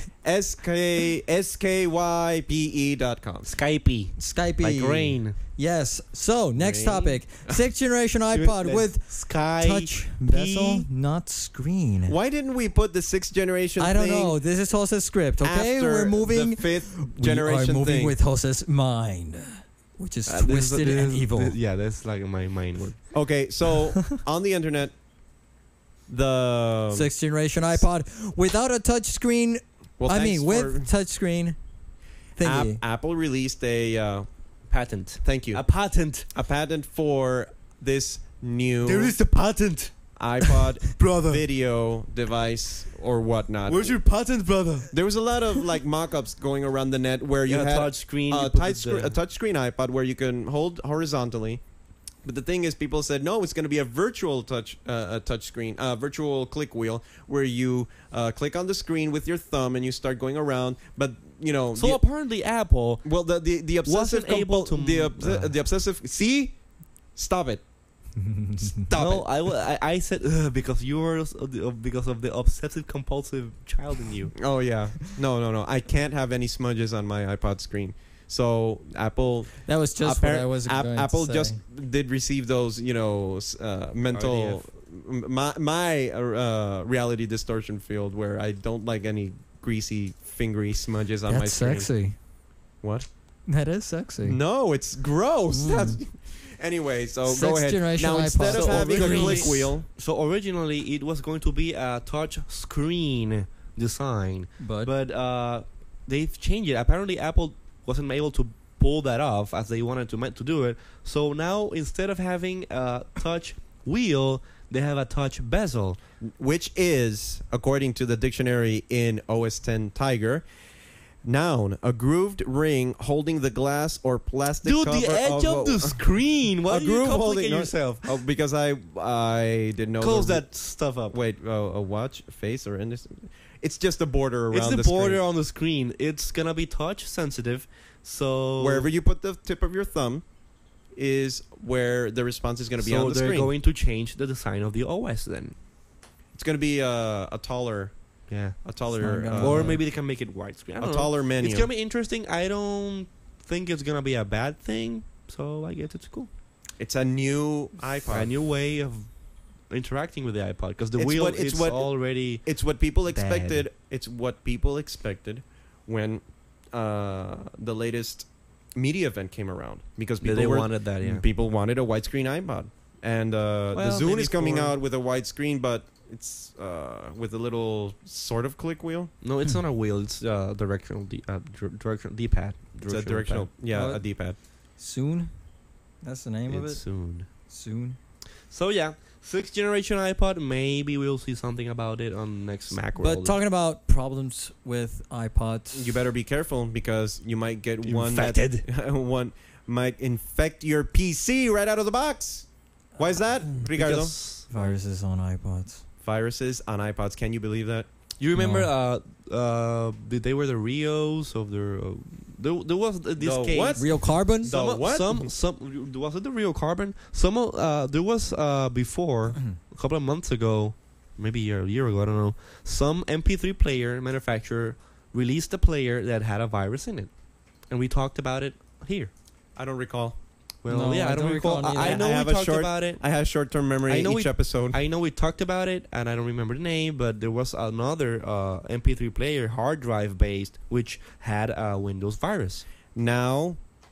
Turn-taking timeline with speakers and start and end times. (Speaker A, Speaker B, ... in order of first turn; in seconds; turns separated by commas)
Speaker A: 0.2-3.5, Speaker B: 3.5-5.4, Speaker C: 4.2-12.2, Speaker A: 6.6-7.6, Speaker B: 8.3-10.9, Speaker A: 12.1-14.4, Speaker C: 13.8-21.6, Speaker A: 15.4-18.2, Speaker B: 20.3-23.0, Speaker A: 23.1-24.9, Speaker A: 26.1-27.1, Speaker C: 26.9-31.6, Speaker A: 30.0-30.9, Speaker C: 32.4-32.8, Speaker A: 32.4-34.3, Speaker B: 34.7-36.3, Speaker A: 35.2-35.6, Speaker A: 36.4-39.2, Speaker B: 38.9-41.4, Speaker A: 40.2-44.0, Speaker B: 43.7-44.9, Speaker A: 44.9-51.6, Speaker B: 47.5-49.2, Speaker A: 52.2-62.0, Speaker B: 61.8-63.0, Speaker A: 63.0-66.6, Speaker B: 63.9-65.5, Speaker A: 67.2-67.6, Speaker C: 68.2-68.8, Speaker A: 68.6-69.3, Speaker B: 68.9-74.3, Speaker A: 74.4-91.9, Speaker C: 79.7-81.6, Speaker B: 84.1-84.6, Speaker C: 91.3-92.2, Speaker A: 92.8-93.1, Speaker C: 93.5-94.4, Speaker A: 94.2-99.9, Speaker C: 95.5-96.0, Speaker C: 97.2-99.7, Speaker B: 98.5-116.0, Speaker C: 104.6-104.9, Speaker A: 116.2-120.5, Speaker A: 121.2-126.0, Speaker B: 124.6-128.1, Speaker A: 126.7-130.5, Speaker B: 130.0-131.2, Speaker A: 131.1-135.2, Speaker B: 134.5-138.9, Speaker A: 138.6-140.2, Speaker A: 140.9-143.5, Speaker B: 142.8-145.6, Speaker A: 146.3-147.9, Speaker B: 148.3-148.6, Speaker A: 148.6-149.8, Speaker C: 149.0-149.8, Speaker B: 149.4-156.3, Speaker A: 150.8-151.7, Speaker A: 156.8-158.3, Speaker B: 158.1-159.1, Speaker B: 159.7-162.4, Speaker A: 161.0-161.9, Speaker A: 162.4-179.1, Speaker B: 163.1-163.6, Speaker B: 170.2-171.2, Speaker B: 173.7-174.8, Speaker B: 179.2-183.5, Speaker A: 182.8-184.4, Speaker C: 183.7-184.0, Speaker C: 184.8-185.3, Speaker C: 186.0-186.8, Speaker B: 186.5-187.3, Speaker C: 187.5-188.0, Speaker B: 188.5-193.4, Speaker C: 193.0-195.9, Speaker A: 195.7-204.2, Speaker B: 197.8-198.6, Speaker B: 203.7-204.7, Speaker C: 204.5-205.8, Speaker A: 206.0-207.9, Speaker B: 208.2-227.1, Speaker C: 208.4-208.7, Speaker A: 213.2-215.3, Speaker C: 213.8-214.6, Speaker B: 227.7-229.1, Speaker A: 229.6-230.2, Speaker B: 230.6-233.0, Speaker C: 230.7-232.0, Speaker A: 231.8-234.8, Speaker B: 233.9-242.7, Speaker A: 242.9-243.6